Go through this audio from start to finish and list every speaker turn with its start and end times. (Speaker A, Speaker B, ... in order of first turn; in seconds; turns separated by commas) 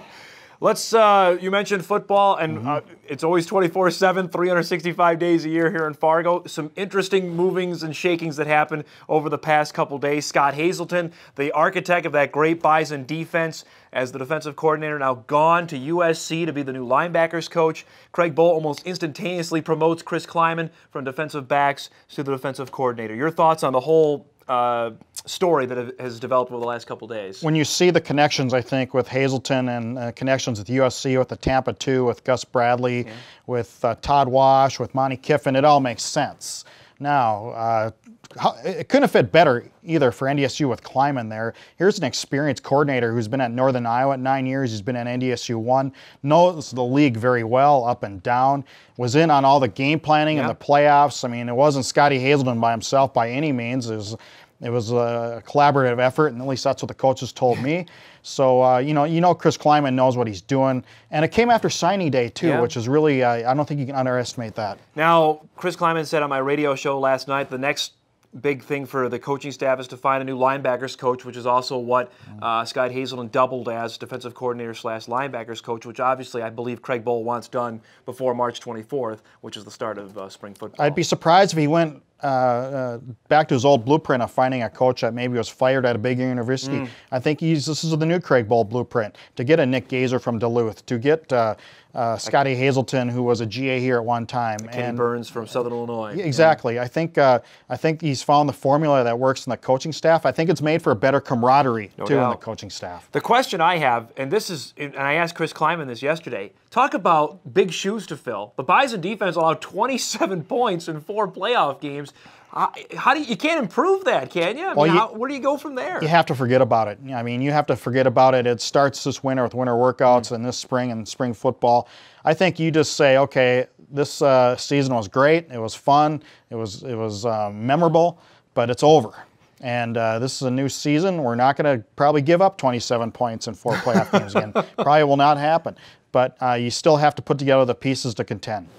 Speaker A: 0.6-27.4, Speaker B: 27.4-64.8, Speaker A: 62.4-62.7, Speaker A: 64.9-81.0, Speaker B: 80.8-95.1, Speaker A: 94.6-96.6, Speaker B: 96.1-103.0, Speaker A: 102.0-102.4, Speaker A: 103.1-116.1, Speaker B: 114.7-115.0, Speaker B: 116.0-138.7